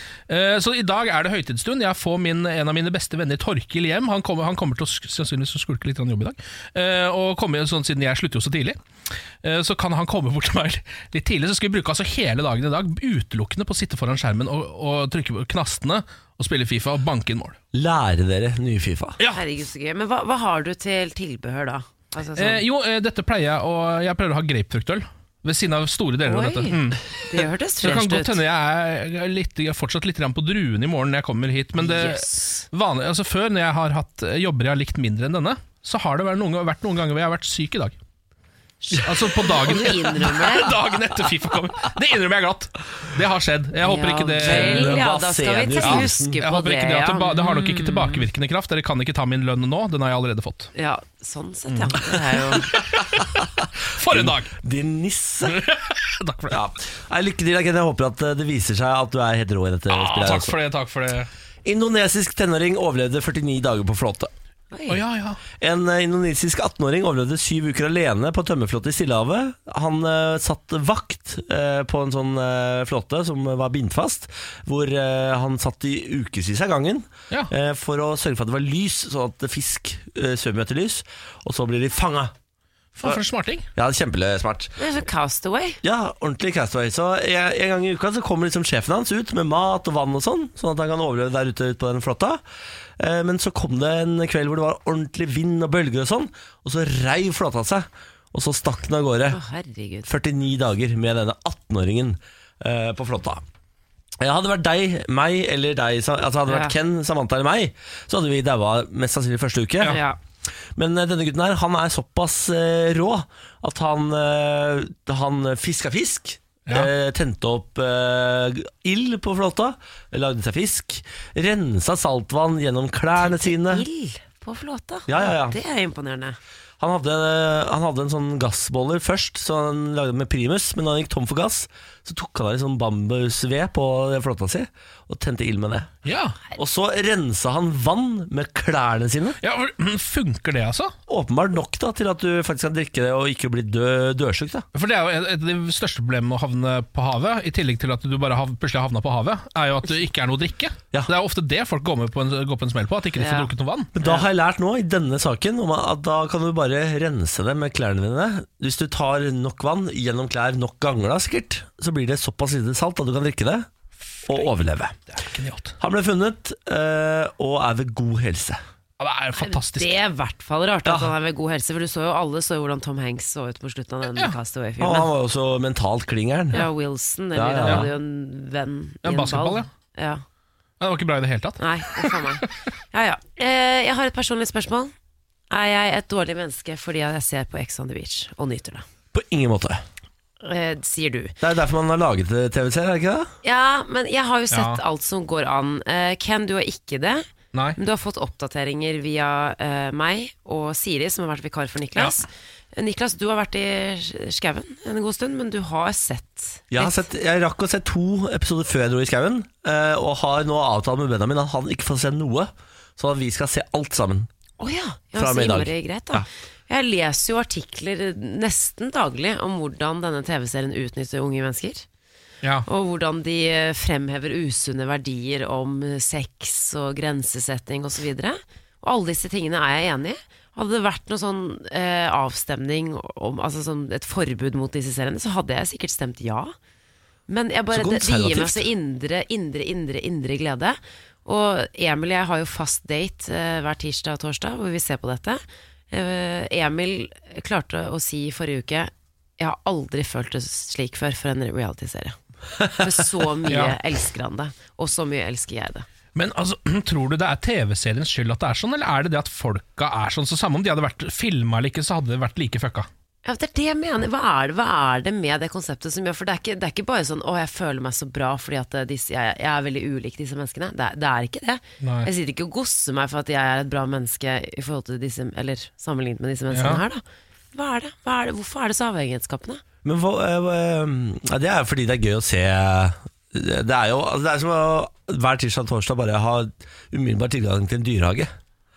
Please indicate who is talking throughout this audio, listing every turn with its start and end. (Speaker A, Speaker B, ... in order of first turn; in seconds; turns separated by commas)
Speaker A: 0.3-8.8, Speaker A: 9.4-17.6, Speaker B: 17.7-19.2, Speaker C: 19.3-22.6, Speaker A: 22.4-27.1, Speaker C: 26.2-28.4, Speaker A: 27.8-37.9, Speaker C: 31.8-32.6, Speaker C: 38.8-40.7, Speaker A: 39.0-45.1, Speaker C: 43.8-48.2, Speaker B: 44.4-46.4, Speaker A: 45.8-50.7, Speaker C: 50.7-52.7, Speaker A: 51.7-52.0, Speaker A: 52.7-53.4, Speaker A: 53.9-54.5, Speaker B: 54.0-55.6, Speaker A: 55.5-56.6, Speaker B: 56.5-60.6, Speaker A: 59.9-61.3, Speaker B: 61.6-64.3, Speaker C: 64.7-65.0, Speaker A: 64.9-65.4, Speaker B: 65.6-82.3, Speaker A: 83.0-83.7, Speaker B: 83.7-84.7, Speaker C: 84.8-85.8, Speaker B: 85.8-92.4, Speaker B: 93.0-99.4, Speaker C: 99.3-100.1, Speaker B: 100.0-103.4, Speaker B: 104.2-110.0, Speaker C: 106.5-106.7, Speaker C: 109.8-110.2, Speaker B: 110.8-123.8, Speaker C: 123.2-126.4, Speaker B: 125.1-125.6, Speaker B: 126.8-136.0, Speaker A: 136.0-136.4, Speaker B: 136.6-139.4, Speaker A: 139.4-140.9, Speaker B: 141.1-144.7, Speaker A: 144.7-153.9, Speaker C: 153.2-153.5, Speaker B: 153.9-163.7, Speaker C: 154.0-154.2, Speaker B: 164.2-165.0, Speaker A: 165.1-165.8, Speaker B: 165.8-168.6, Speaker A: 169.0-170.0, Speaker C: 169.4-175.1, Speaker B: 174.8-176.7, Speaker C: 176.5-180.2, Speaker B: 177.3-177.9, Speaker A: 177.6-177.9, Speaker A: 179.0-179.7, Speaker A: 180.8-182.5, Speaker C: 181.6-184.9, Speaker C: 185.5-188.8, Speaker B: 189.1-189.8, Speaker C: 190.4-191.3, Speaker B: 191.4-193.3, Speaker C: 193.4-207.0, Speaker A: 194.5-194.8, Speaker B: 206.7-214.3, Speaker C: 214.6-221.8, Speaker B: 215.1-216.2, Speaker C: 222.7-236.5, Speaker C: 237.3-252.2, Speaker B: 237.7-238.7, Speaker C: 252.7-255.8, Speaker A: 253.5-253.7, Speaker A: 256.1-262.9, Speaker C: 263.2-279.6, Speaker A: 271.8-272.1, Speaker A: 276.5-276.8, Speaker B: 279.8-288.3